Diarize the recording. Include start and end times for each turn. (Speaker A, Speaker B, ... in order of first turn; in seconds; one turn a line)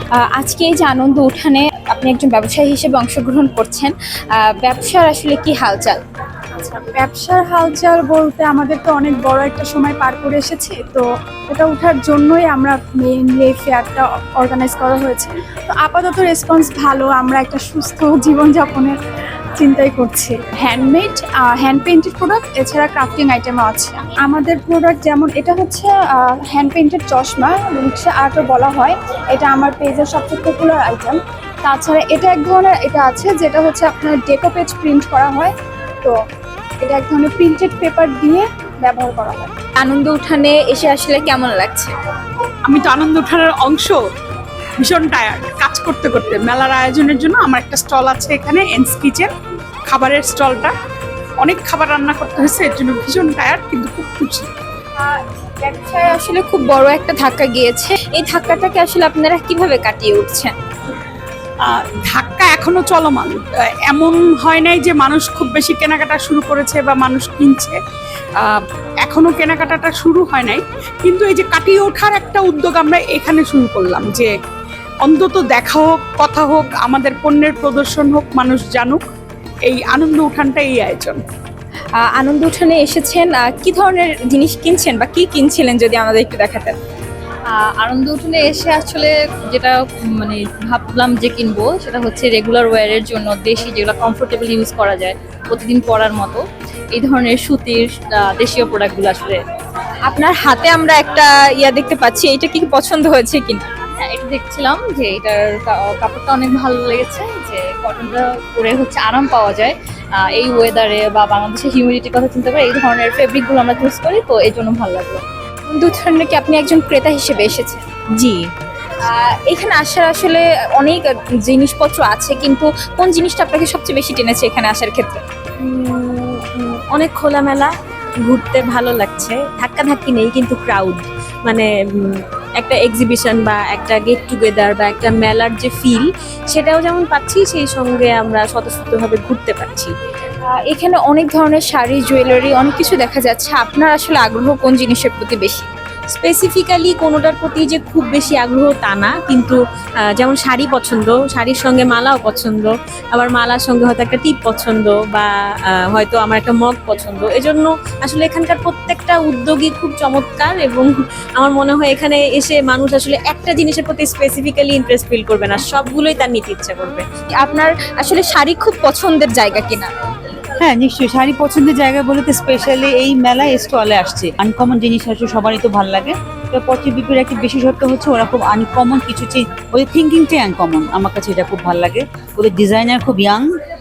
Speaker A: 0.2-6.0
Speaker B: 6.6-19.0
Speaker B: 19.6-36.2
Speaker B: 36.8-39.5
Speaker A: 39.8-41.9
Speaker C: 42.7-44.0
Speaker C: 44.8-49.3
Speaker C: 49.9-50.8
Speaker C: 51.4-54.5
Speaker A: 55.0-60.5
Speaker C: 61.6-67.8
Speaker C: 68.4-74.3
Speaker C: 75.0-79.1
Speaker C: 79.7-81.2
Speaker A: 82.0-86.8
Speaker A: 87.8-89.1
Speaker D: 87.8-96.3
Speaker A: 90.7-96.4
Speaker A: 97.0-97.8
Speaker D: 97.0-99.4
Speaker A: 98.4-99.3
Speaker A: 100.1-108.0
Speaker D: 104.0-109.7
Speaker A: 108.6-109.7
Speaker D: 110.4-115.2
Speaker A: 110.4-115.2
Speaker A: 115.7-117.8
Speaker E: 118.2-118.4
Speaker A: 119.0-125.2
Speaker E: 125.6-127.7
Speaker E: 128.3-139.9
Speaker A: 140.6-145.7
Speaker E: 146.1-149.6
Speaker E: 150.2-155.3
Speaker E: 155.8-167.0
Speaker A: 167.4-169.9
Speaker F: 170.6-183.5